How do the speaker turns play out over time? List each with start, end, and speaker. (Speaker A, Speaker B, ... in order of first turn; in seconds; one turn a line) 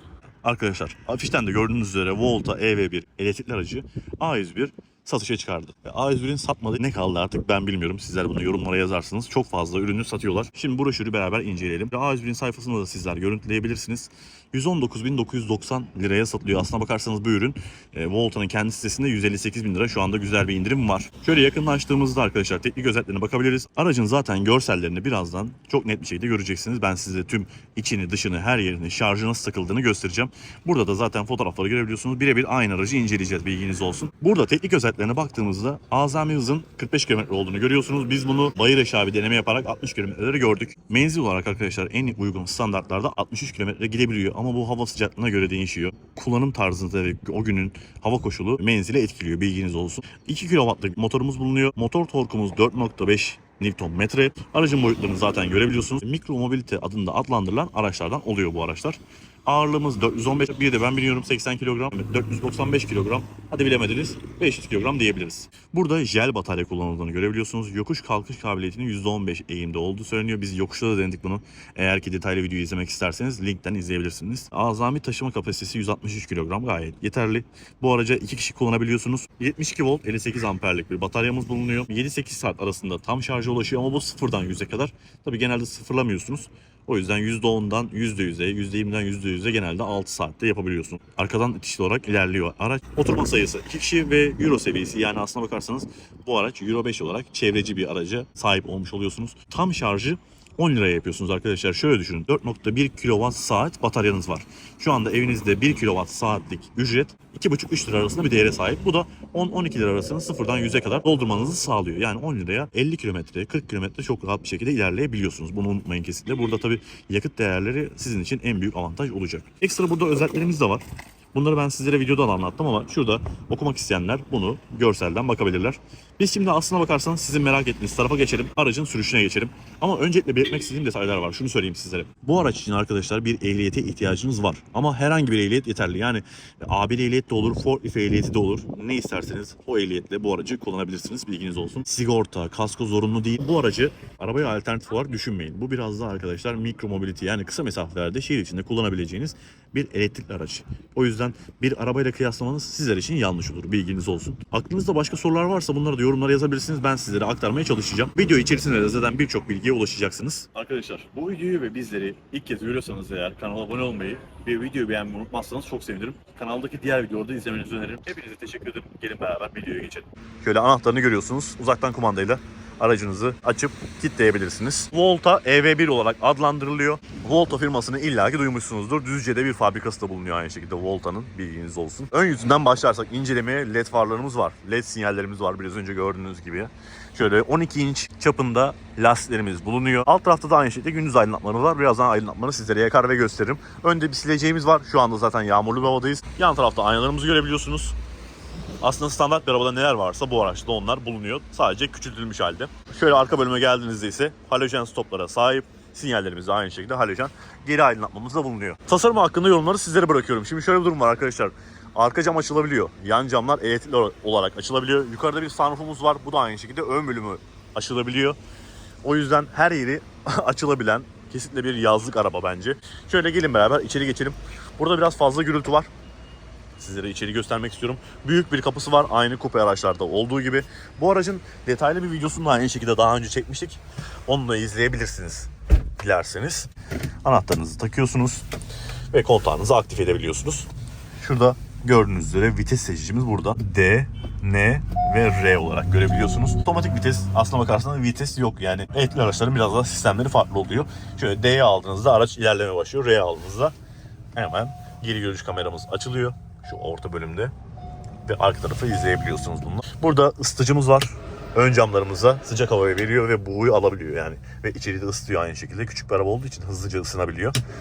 Speaker A: 0.4-120.8
Speaker A: 121.3-197.9
Speaker A: 198.8-218.4
Speaker A: 219.0-225.9
Speaker A: 226.8-236.7
Speaker A: 237.2-238.4
Speaker A: 239.1-240.7
Speaker A: 241.2-253.7
Speaker A: 254.3-257.5
Speaker A: 258.2-267.6